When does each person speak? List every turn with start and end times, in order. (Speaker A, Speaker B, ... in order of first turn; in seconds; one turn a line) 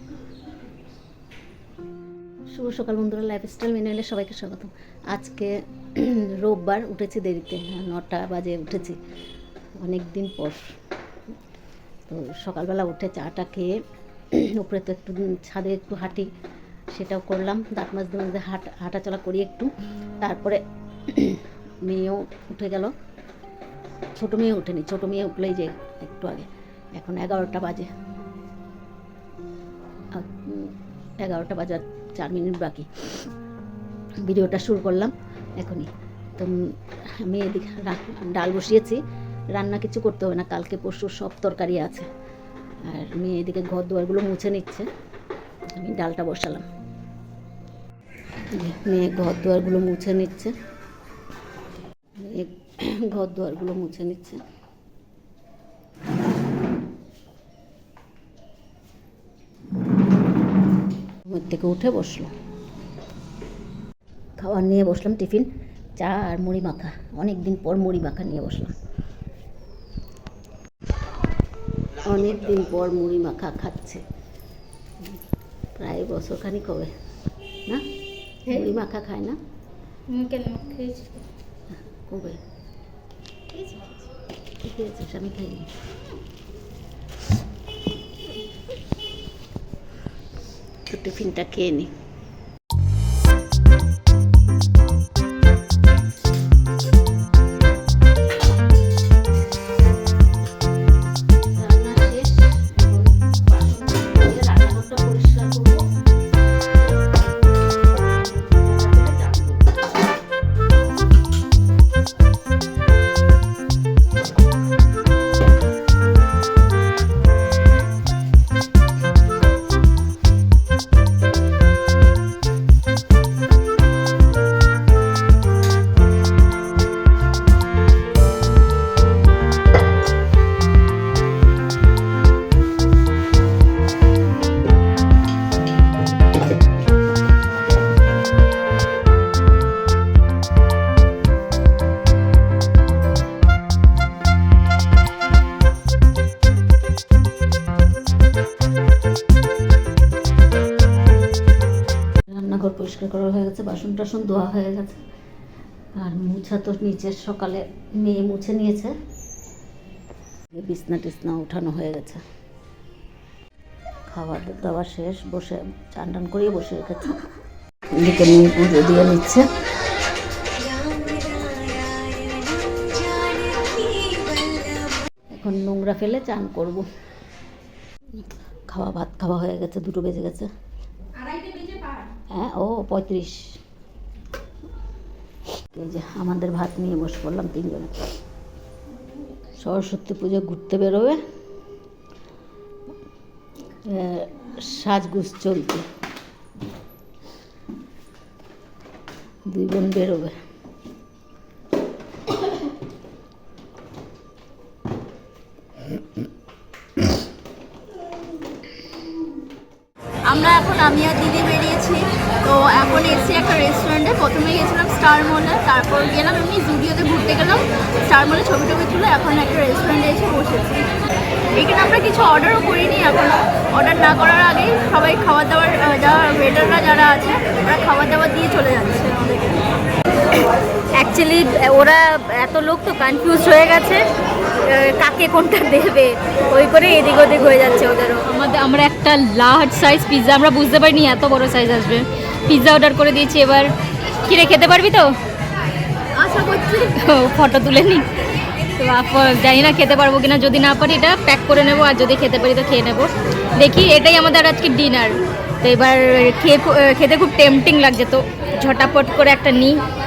Speaker A: 2.5-9.0
Speaker A: 9.8-10.6
Speaker A: 12.1-13.7
Speaker A: 14.3-16.3
Speaker A: 16.9-19.7
Speaker A: 20.2-22.9
Speaker A: 24.1-27.9
Speaker A: 30.1-33.3
Speaker A: 34.2-36.5
Speaker A: 37.2-39.0
Speaker A: 39.5-42.1
Speaker A: 42.9-44.9
Speaker A: 45.7-46.6
Speaker A: 48.5-50.5
Speaker A: 52.2-54.4
Speaker A: 61.3-62.3
Speaker A: 64.4-68.7
Speaker A: 72.0-74.0
Speaker A: 75.8-76.9
Speaker A: 78.5-79.4
Speaker B: 80.1-81.1
Speaker A: 81.9-82.4
Speaker A: 84.6-85.7
Speaker A: 90.9-91.9
Speaker A: 101.5-105.9
Speaker A: 107.9-109.8
Speaker A: 152.3-155.0
Speaker A: 155.9-158.9
Speaker A: 160.5-162.2
Speaker A: 164.1-167.2
Speaker A: 167.9-169.4
Speaker B: 170.7-172.2
Speaker B: 173.4-174.7
Speaker A: 175.3-176.8
Speaker A: 178.1-180.5
Speaker B: 181.2-181.9
Speaker A: 182.3-183.6
Speaker A: 185.7-187.9
Speaker A: 189.6-191.2
Speaker A: 193.8-195.8
Speaker A: 199.5-200.3
Speaker C: 210.2-220.8
Speaker C: 221.5-229.7
Speaker B: 231.0-234.0
Speaker B: 234.6-243.7
Speaker B: 244.3-245.1
Speaker C: 246.1-246.9
Speaker B: 246.9-248.1
Speaker B: 248.8-259.8